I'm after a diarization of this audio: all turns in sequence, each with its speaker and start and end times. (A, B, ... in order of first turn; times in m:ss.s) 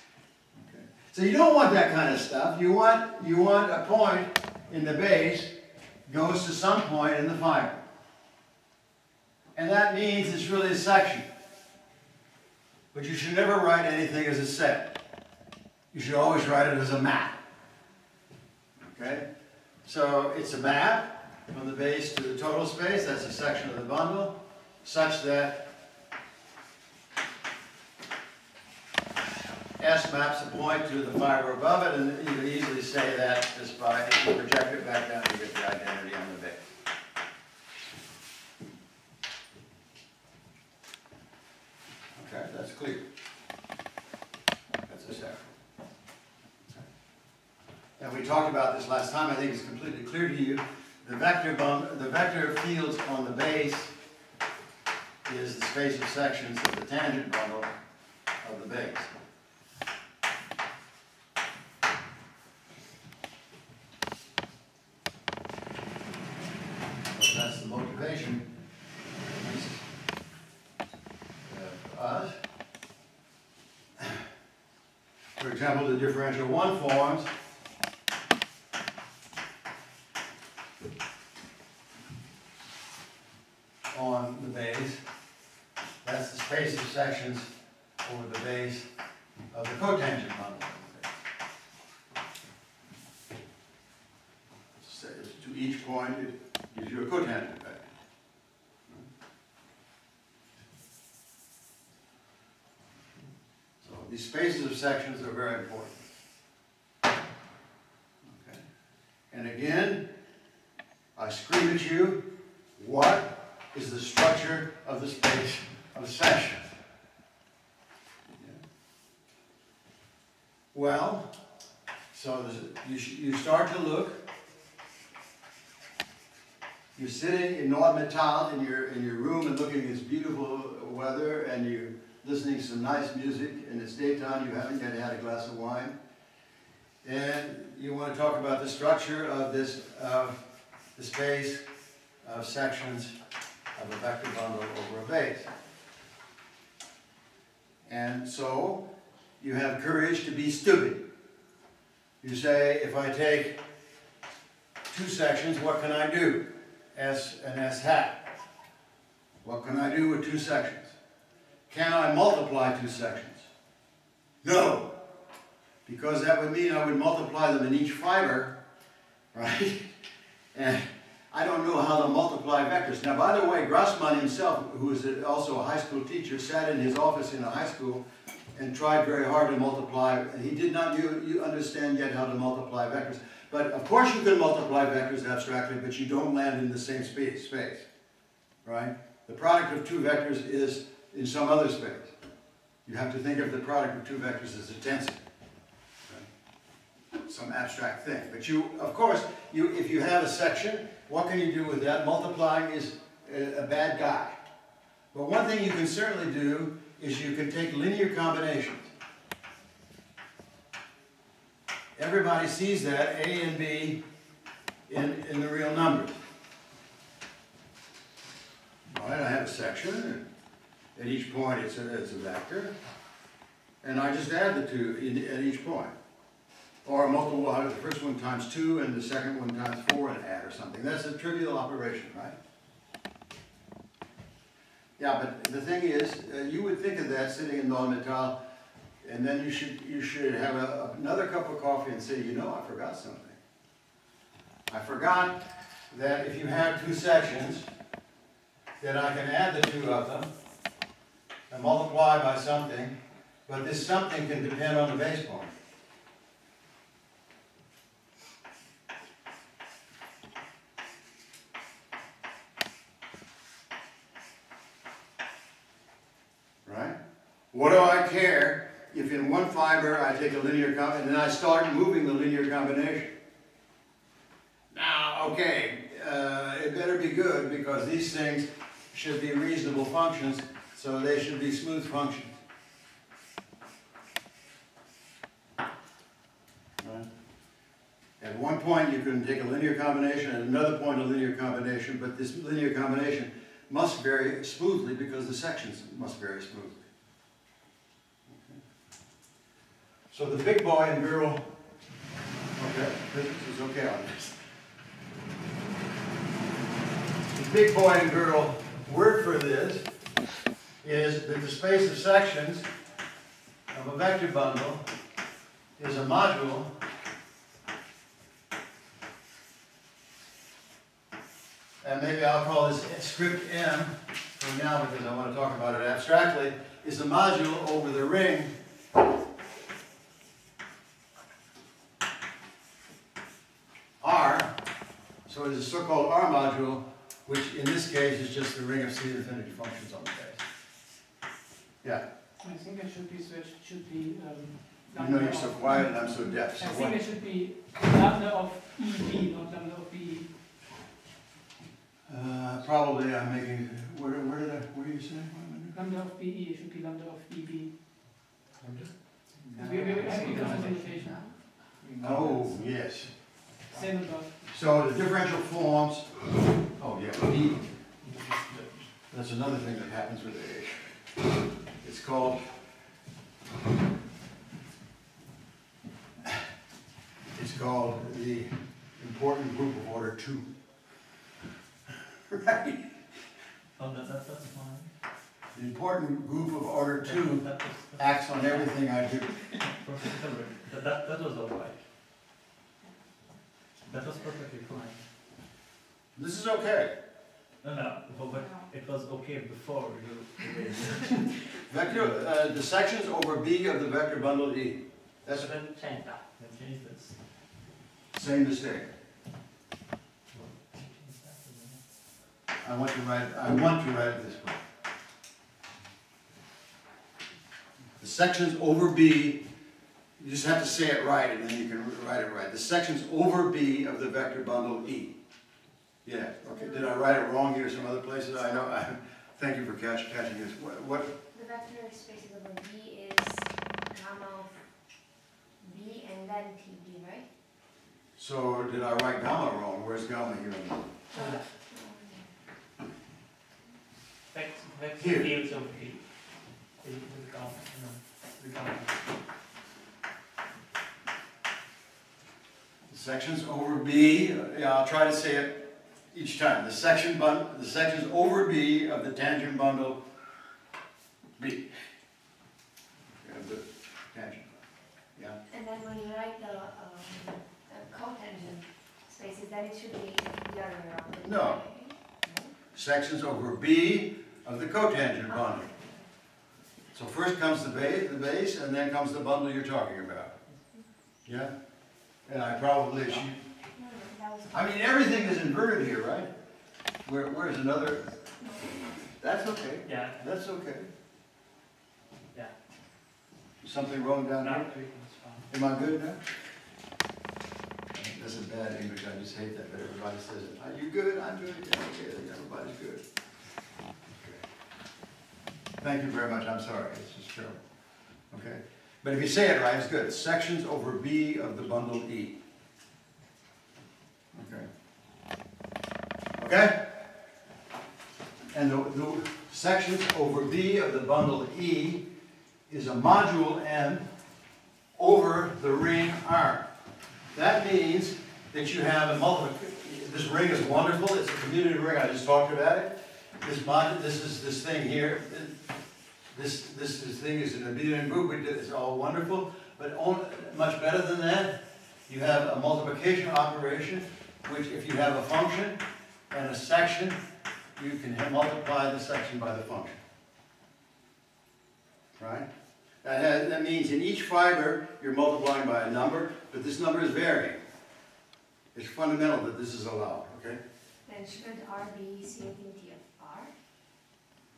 0:00.6-0:05.5 A
0:06.1-0:07.8 A
0:09.6-0:11.2 A
0:12.9-0:15.0 A
0:15.9-0:17.4 A
0:18.8-0:19.2 A
0:19.8-0:25.7 A
0:29.8-0:36.6 A
0:42.2-0:43.0 A
0:44.9-0:45.5 A
0:48.0-0:53.9 A
0:55.2-0:57.7 A
0:58.4-0:59.1 A
1:07.1-1:08.5 A
1:09.2-1:09.8 A
1:11.4-1:12.3 A
1:15.4-1:17.3 A
1:23.9-1:25.0 A
1:26.0-1:27.5 A
1:28.0-1:28.9 A
1:29.5-1:31.1 A
1:34.8-1:37.8 A
1:43.8-1:46.0 A
1:48.2-1:48.6 A
1:49.3-1:50.1 A
1:51.2-1:56.6 A
2:00.7-2:01.3 A
2:02.1-2:04.2 A
2:07.0-2:16.0 A
2:17.0-2:20.4 A
2:21.0-2:21.6 A
2:22.2-2:23.1 A
2:23.7-2:25.5 A
2:27.8-2:28.9 A
2:29.4-2:31.0 A
2:32.2-2:33.6 A
2:34.9-2:38.4 A
2:39.4-2:41.0 A
2:41.7-2:43.5 A
2:44.4-2:44.9 A
2:45.8-2:48.5 A
2:49.3-2:49.9 A
2:50.5-3:07.8 A
3:08.6-3:12.1 A
3:12.8-3:15.2 A
3:17.3-3:24.4 A
3:25.1-3:28.9 A
3:32.0-3:34.0 A
3:34.9-3:36.2 A
3:38.9-3:40.2 A
3:40.9-3:42.7 A
3:43.8-3:45.9 A
3:46.8-3:52.3 A
3:55.0-3:58.4 A
3:59.0-4:03.4 A
4:04.7-4:07.7 A
4:08.8-4:10.3 A
4:11.5-4:15.5 A
4:26.6-4:27.0 A
4:27.5-4:33.1 A
4:34.7-4:42.3 A
4:46.8-4:47.1 A
4:48.2-4:56.8 A
4:58.3-4:58.6 A
5:00.1-5:01.4 A
5:02.5-5:04.4 A
5:07.3-5:09.9 A
5:10.8-5:12.7 A
5:13.7-5:14.8 A
5:15.8-5:16.7 A
5:21.8-5:28.5 A
5:34.0-5:34.6 A
5:35.2-5:40.4 A
5:42.4-5:50.4 B
5:44.9-5:47.0 A
5:52.1-5:55.8 A
5:55.7-5:57.8 B
5:59.4-6:02.5 C
5:59.5-6:00.1 A
5:59.6-6:01.7 B
6:00.2-6:00.7 D
6:02.0-6:03.1 A
6:03.7-6:04.4 B
6:04.5-6:06.1 A
6:06.8-6:07.6 A
6:09.1-6:11.0 A
6:11.8-6:12.5 A
6:17.3-6:20.5 A
6:22.3-6:22.9 A
6:23.8-6:24.9 C
6:25.5-6:29.4 A
6:27.0-6:28.8 C
6:29.5-6:31.8 C
6:33.8-6:35.0 C
6:36.2-6:36.9 A
6:37.6-6:42.2 C
6:37.7-6:38.1 D
6:41.7-6:45.5 A
6:45.3-6:46.2 D
6:46.2-6:47.2 C
6:48.1-6:48.9 A
6:50.3-6:51.8 C
6:52.6-6:54.6 A
6:58.0-6:59.4 A
7:00.2-7:05.2 A
7:06.0-7:11.2 A
7:06.4-7:07.1 E
7:11.3-7:14.6 E
7:15.6-7:17.3 E
7:18.2-7:20.8 A
7:21.1-7:22.3 E
7:24.3-7:26.0 D
7:25.0-7:25.3 A
7:26.8-7:29.0 D
7:32.9-7:40.0 A
7:41.4-7:41.7 A
7:43.2-7:44.6 A
7:45.5-7:52.6 E
7:51.2-7:51.6 A
7:52.7-7:55.7 A
7:55.7-7:56.0 E
7:56.9-8:00.3 A
8:01.2-8:01.5 A
8:02.2-8:03.4 A
8:03.6-8:04.6 E
8:04.5-8:06.3 A
8:07.0-8:08.2 A
8:08.4-8:08.9 E
8:09.2-8:10.9 A
8:09.8-8:10.2 D
8:13.6-8:14.7 A
8:14.4-8:15.4 D
8:15.5-8:16.3 A
8:17.9-8:23.0 A
8:25.8-8:27.6 A
8:28.3-8:32.4 A
8:34.3-8:34.7 A
8:36.4-8:37.1 A
8:38.5-8:42.1 A
8:42.7-8:44.0 A
8:45.0-8:46.7 A
8:47.3-8:55.6 A
8:56.3-9:05.8 A
9:06.3-9:07.2 A
9:07.8-9:10.0 A
9:12.2-9:12.5 A
9:13.0-9:17.6 A
9:18.7-9:20.6 A
9:21.0-9:23.5 E